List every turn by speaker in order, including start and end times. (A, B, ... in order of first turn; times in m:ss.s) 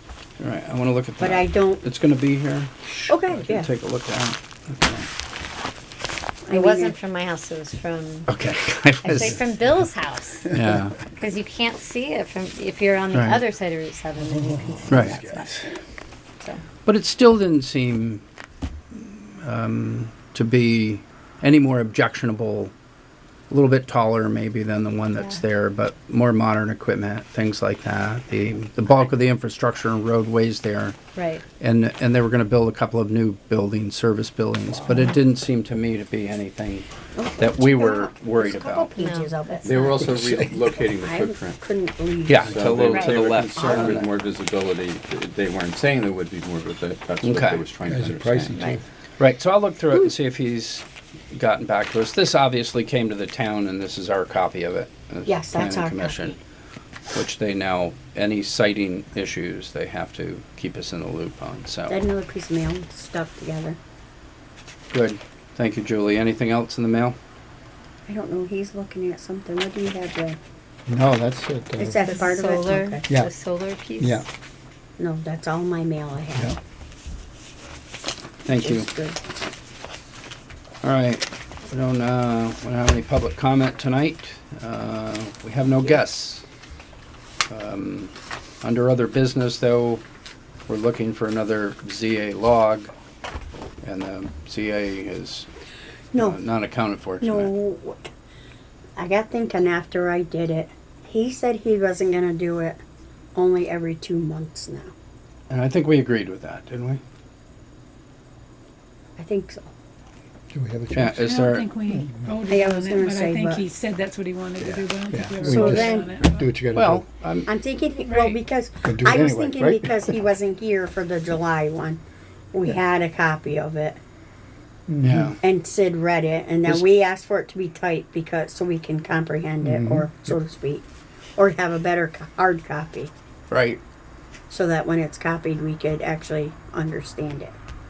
0:00.4-0:05.1 A
0:01.2-0:01.9 B
0:03.1-0:03.7 B
0:06.4-0:07.0 B
0:06.5-0:08.3 C
0:08.3-0:09.4 A
0:09.0-0:10.6 C
0:10.5-0:11.0 A
0:11.2-0:15.7 C
0:13.1-0:13.4 A
0:14.4-0:15.6 D
0:14.9-0:15.2 A
0:16.8-0:18.2 A
0:18.9-0:22.7 A
0:23.5-0:31.0 A
0:25.1-0:25.4 C
0:31.2-0:31.4 C
0:31.6-0:36.9 A
0:34.8-0:35.1 B
0:37.1-0:40.2 B
0:37.4-0:38.9 A
0:39.0-0:39.8 C
0:39.6-0:41.6 E
0:40.0-0:40.6 D
0:41.0-0:42.6 B
0:42.3-0:44.1 A
0:42.4-0:48.6 E
0:42.9-0:43.2 C
0:43.5-0:44.0 B
0:47.2-0:47.6 A
0:47.9-0:48.8 D
0:49.2-0:56.4 A
0:55.2-0:56.2 B
0:57.1-1:02.0 A
1:01.9-1:03.8 B
1:04.9-1:07.2 A
1:08.1-1:10.4 B
1:10.9-1:12.0 D
1:11.8-1:13.1 B
1:12.0-1:14.2 C
1:14.0-1:14.2 D
1:15.0-1:16.6 B
1:18.4-1:18.9 A
1:18.5-1:19.2 B
1:20.8-1:26.4 A
1:27.5-1:30.0 A
1:30.7-1:32.9 A
1:33.8-1:35.5 A
1:36.1-1:37.5 A
1:37.2-1:38.1 B
1:39.0-1:42.8 B
1:43.3-1:44.9 B
1:45.5-1:47.0 A
1:49.2-1:49.7 B
1:50.5-1:52.3 D
1:50.9-1:51.7 A
1:51.2-1:56.4 F
1:52.4-1:53.6 B
1:54.6-1:57.0 D
1:55.4-1:56.1 B
1:56.7-1:57.5 A
1:57.4-2:02.0 B
1:58.0-1:58.4 F
1:58.8-2:00.1 D
2:02.5-2:04.0 B
2:04.9-2:05.3 D
2:05.0-2:05.4 A
2:05.4-2:10.8 B
2:09.6-2:10.3 D
2:11.4-2:13.1 B
2:13.5-2:13.8 A
2:14.5-2:17.6 B